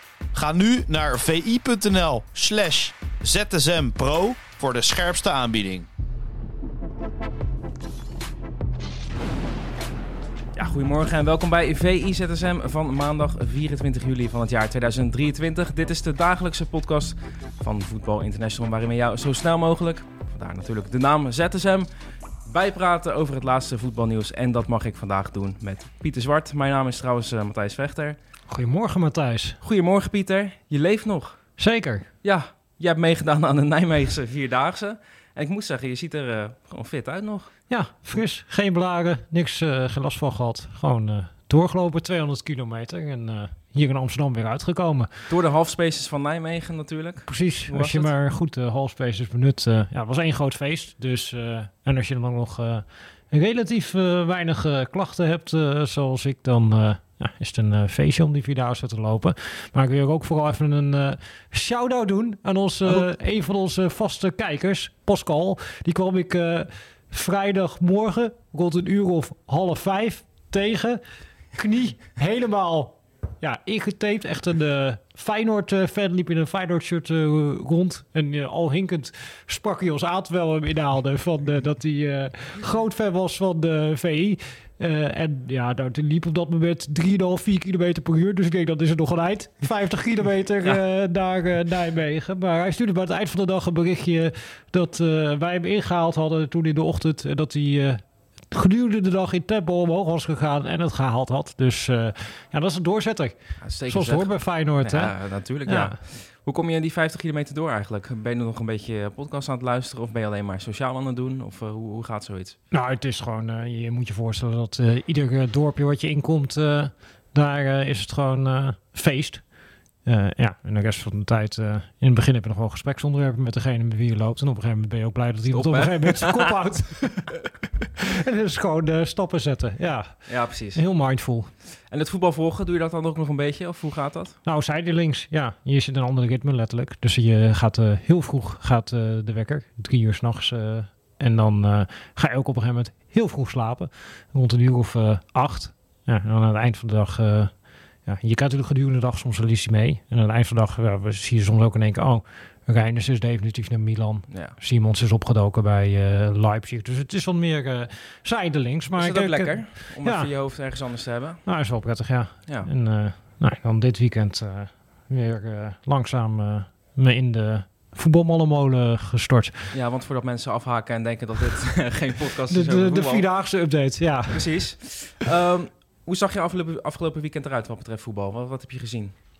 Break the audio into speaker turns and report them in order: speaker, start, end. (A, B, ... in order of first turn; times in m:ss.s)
0:00.3-0:05.9 A
0:10.6-0:21.9 B
0:22.5-0:28.2 B
0:28.5-0:29.6 C
0:29.6-0:31.4 B
0:31.6-0:32.1 C
0:32.2-0:37.5 B
0:37.7-0:45.1 C
0:45.3-0:48.1 B
0:47.3-1:11.0 C
1:11.5-1:38.0 C
1:38.5-1:45.1 C
1:43.6-1:52.6 B
1:45.6-1:46.0 C
1:52.7-1:59.4 C
2:00.1-2:07.4 C
2:05.5-2:06.5 B
2:08.0-2:11.5 C
2:10.3-2:10.8 B
2:11.9-2:14.4 B
2:14.4-2:27.5 C
2:28.0-2:40.3 C
2:39.0-2:41.4 B
2:41.4-2:49.7 C
2:49.7-2:53.3 B
2:52.5-2:54.6 C
2:54.3-2:59.1 B